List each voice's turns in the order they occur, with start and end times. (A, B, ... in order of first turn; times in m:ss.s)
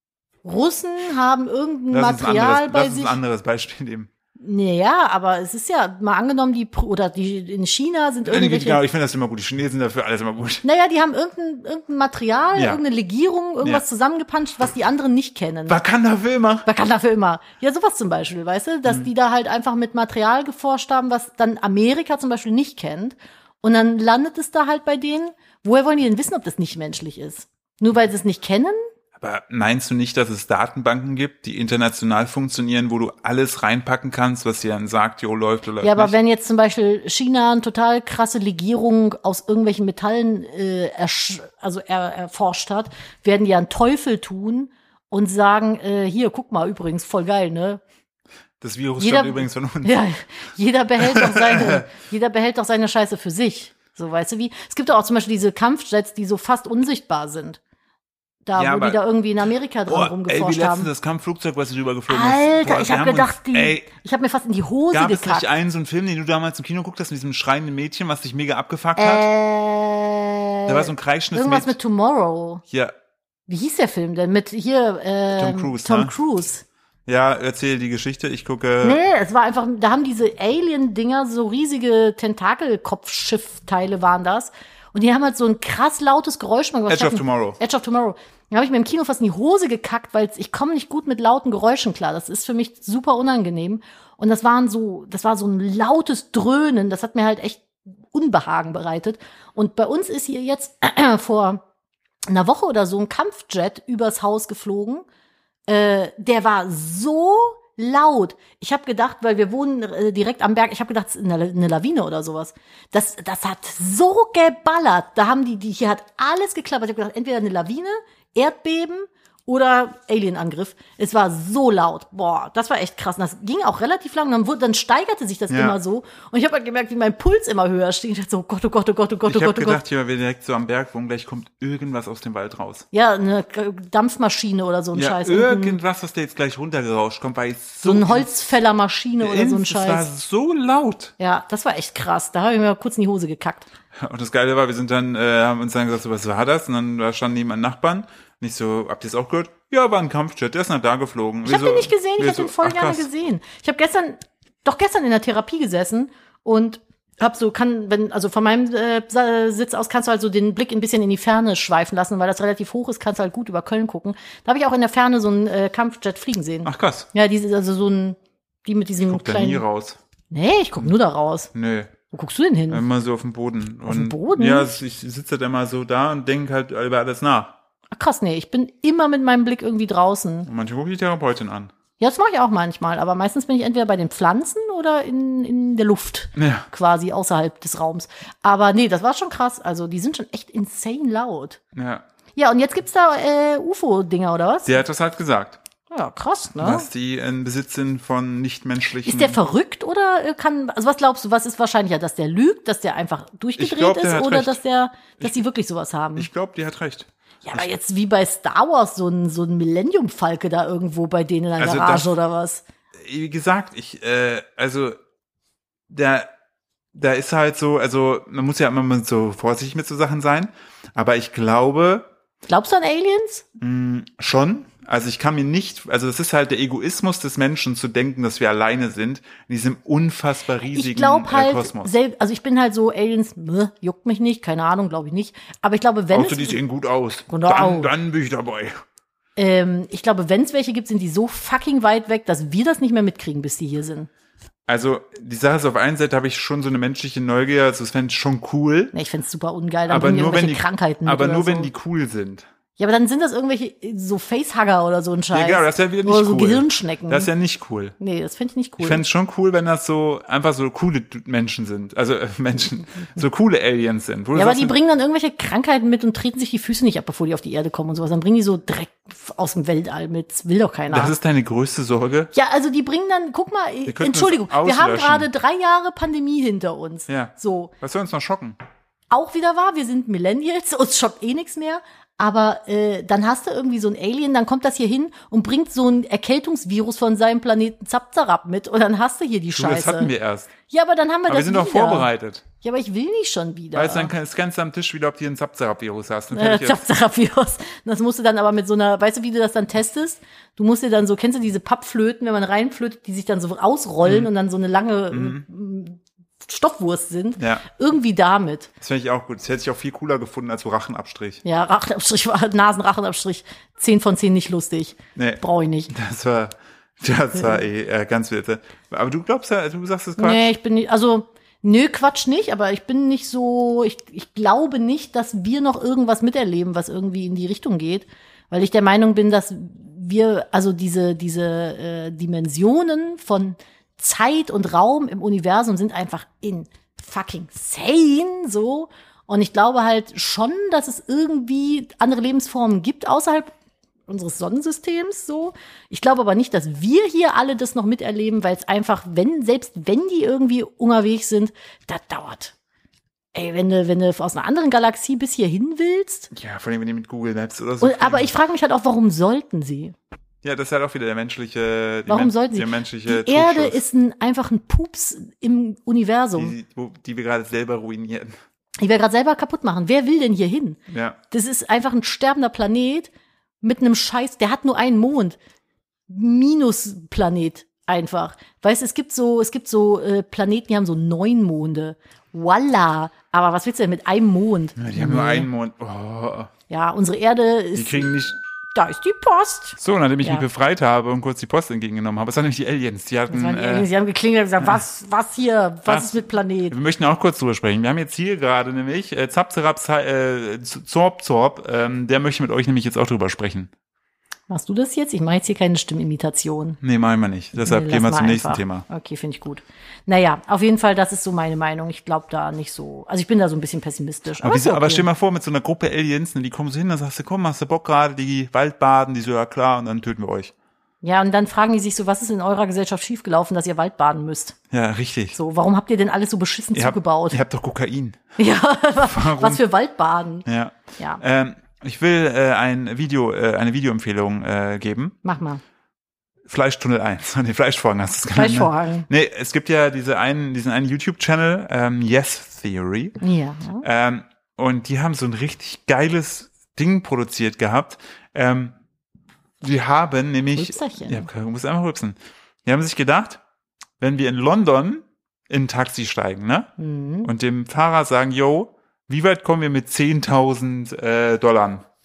0:00.4-0:03.2 A
0:01.9-0:04.1 B
0:04.4-0:08.8 A
0:08.2-0:10.6 B
0:10.6-0:15.8 A
0:12.6-0:12.8 B
0:15.7-0:16.7 B
0:16.7-0:28.8 A
0:29.2-0:36.2 B
0:35.8-0:47.8 A
0:48.6-0:50.0 B
0:49.0-0:57.6 A
0:51.0-0:51.9 B
0:58.5-1:00.9 A
0:58.6-0:59.0 B
0:59.9-1:03.9 B
1:02.1-1:05.5 A
1:04.9-1:09.3 B
1:09.0-1:12.6 A
1:10.7-1:11.8 B
1:13.5-1:16.6 A
1:15.3-1:16.1 B
1:17.1-1:19.0 B
1:18.8-1:41.6 A
1:26.9-1:27.6 B
1:42.3-1:45.1 A
1:45.7-2:09.8 A
2:05.5-2:05.8 B
2:09.3-2:12.9 B
2:12.9-2:15.8 A
2:14.9-2:18.3 B
2:17.8-2:20.1 A
2:19.2-2:21.1 B
2:21.2-2:23.7 A
2:24.0-2:33.1 B
2:31.4-2:49.6 A
2:46.6-2:47.1 B
2:49.0-2:50.0 B
2:50.3-2:51.5 A
2:51.5-2:51.9 B
2:52.1-2:52.8 A
2:52.7-2:57.5 B
2:53.9-2:54.7 A
2:57.9-3:00.5 A
3:00.4-3:01.7 B
3:02.0-3:11.6 A
3:06.4-3:06.7 B
3:11.8-3:12.0 B
3:12.4-3:14.8 A
3:14.7-3:15.6 B
3:15.9-3:16.9 A
3:16.6-3:19.4 B
3:19.0-3:26.3 A
3:23.6-3:24.6 B
3:26.2-3:27.7 B
3:27.4-3:32.6 A
3:31.6-3:32.1 B
3:33.0-3:35.0 B
3:35.9-3:36.3 B
3:36.9-3:42.1 B
3:42.5-3:43.4 A
3:43.6-3:51.9 B
3:50.7-3:56.6 A
3:56.1-3:58.8 B
3:57.3-3:57.9 A
3:59.4-4:04.1 A
4:04.7-4:08.9 B
4:08.9-4:11.7 A
4:09.9-4:12.5 B
4:12.8-4:17.3 A
4:15.3-4:18.0 B
4:18.0-4:19.0 A
4:18.8-4:24.8 B
4:24.3-4:31.1 A
4:30.9-4:32.3 B
4:32.3-4:37.7 A
4:33.9-4:35.3 B
4:37.1-4:38.6 B
4:39.1-4:50.1 A
4:49.6-4:50.5 B
4:50.7-4:52.1 A
4:51.3-4:52.4 B
4:52.6-4:54.1 A
4:53.7-4:56.8 B
4:56.3-5:08.7 A
5:04.0-5:04.3 B
5:05.1-5:05.4 B
5:07.4-5:07.6 B
5:08.8-5:11.4 B
5:11.4-5:15.9 A
5:15.2-5:20.5 B
5:20.2-5:43.5 A
5:44.1-5:52.5 A
5:53.3-5:56.3 A
5:56.3-5:58.3 B
5:57.8-6:00.0 A
6:00.4-6:03.8 B
6:02.1-6:06.6 A
6:06.4-6:08.4 B
6:08.8-6:10.8 A
6:10.9-6:11.2 B
6:11.3-6:13.1 A
6:13.6-6:15.4 A
6:16.1-6:25.5 A
6:24.8-6:26.5 B
6:26.7-6:28.1 A
6:27.8-6:28.4 B
6:28.7-6:30.4 A
6:29.8-6:33.9 B
6:33.3-6:36.8 A
6:35.9-6:43.7 B
6:44.5-6:46.8 A
6:46.8-6:48.9 B
6:47.6-6:55.1 A
6:54.4-7:00.5 B
7:01.0-7:04.6 A
7:04.7-7:05.4 B
7:05.4-7:07.4 A
7:06.7-7:08.4 B
7:08.4-7:10.4 A
7:09.0-7:09.6 B
7:10.4-7:15.2 B
7:15.2-7:15.6 A
7:16.5-7:23.2 B
7:18.3-7:19.1 A
7:23.2-7:23.8 A
7:23.8-7:28.8 B
7:29.6-7:33.4 B
7:30.6-7:31.3 A
7:34.0-7:36.7 B
7:36.8-7:37.3 A
7:37.2-7:41.8 B